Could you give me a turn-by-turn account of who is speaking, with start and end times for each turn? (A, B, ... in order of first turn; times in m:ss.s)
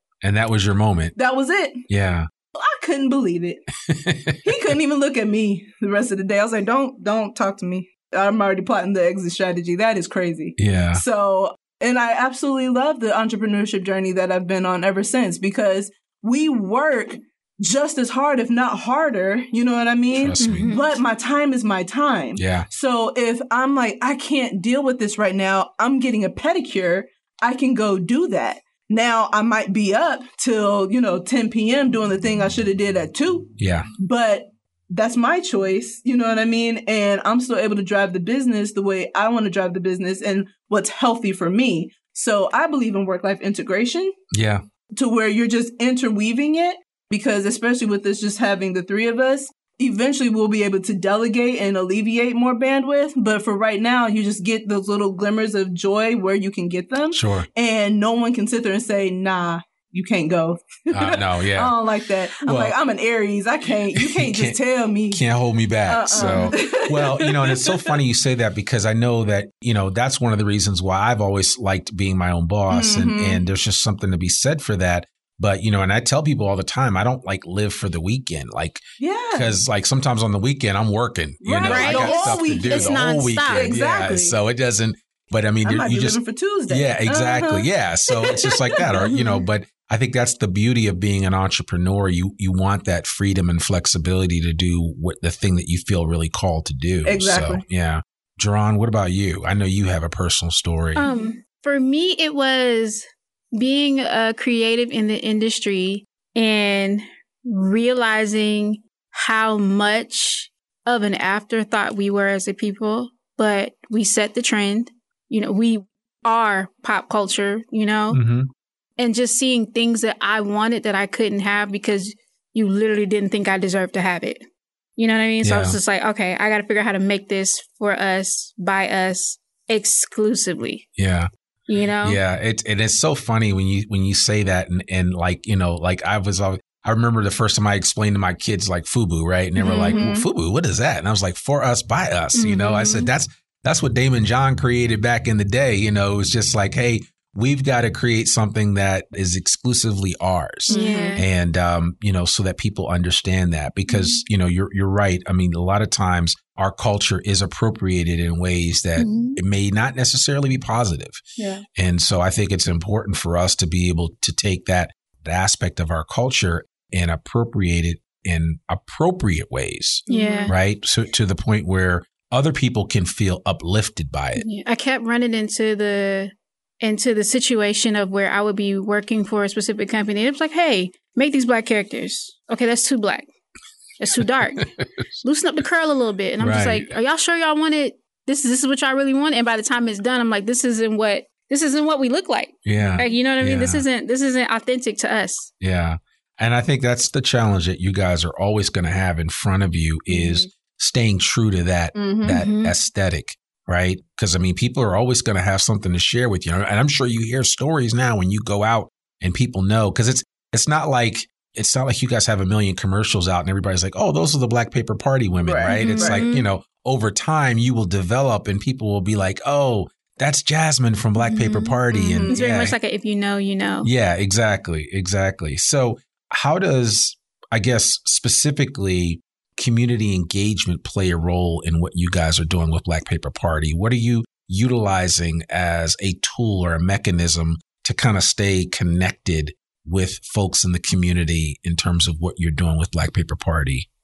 0:00.2-0:01.2 A
0:01.2-0:01.9 B
0:01.9-0:02.3 A
0:02.6-0:03.6 B
0:03.9-0:04.5 A
0:04.4-0:44.2 B
0:10.6-0:11.0 A
0:20.1-0:20.7 A
0:20.4-0:20.9 C
0:22.4-0:22.7 A
0:33.6-0:33.9 A
0:44.3-0:44.6 A
0:45.0-1:05.2 B
0:57.1-0:57.5 A
1:00.9-1:01.8 A
1:02.4-1:02.8 A
1:04.0-1:04.6 A
1:05.1-1:41.0 A
1:05.9-1:07.9 B
1:06.2-1:06.6 C
1:12.7-1:13.4 B
1:19.0-1:19.5 B
1:21.4-1:23.0 B
1:21.7-1:23.8 C
1:23.5-1:24.4 B
1:25.6-1:29.1 B
1:29.1-1:29.4 C
1:37.0-1:37.6 B
1:41.0-1:58.2 C
1:58.1-1:58.5 A
1:59.0-2:04.4 C
2:05.0-2:10.8 C
2:05.4-2:05.8 A
2:11.0-2:11.3 A
2:11.7-2:12.2 C
2:12.0-2:54.4 A
2:19.6-2:20.0 C
2:19.8-2:20.3 B
2:22.4-2:23.1 C
2:30.7-2:31.2 B
2:30.7-2:31.3 C
2:33.9-2:34.2 C
2:39.0-2:39.4 C
2:41.4-2:41.6 B
2:50.1-2:50.5 B
2:50.1-2:50.5 C
2:54.4-3:03.3 C
3:04.0-3:04.7 C
3:04.6-3:04.8 A
3:05.2-3:15.5 C
3:06.4-3:06.9 A
3:12.6-3:13.8 A
3:15.6-3:42.8 A
3:20.1-3:20.4 B
3:22.0-3:22.4 B
3:22.2-3:22.8 C
3:35.4-3:36.2 B
3:35.8-3:36.5 C
3:41.2-3:43.9 C
3:41.9-3:42.4 B
3:43.8-4:03.9 A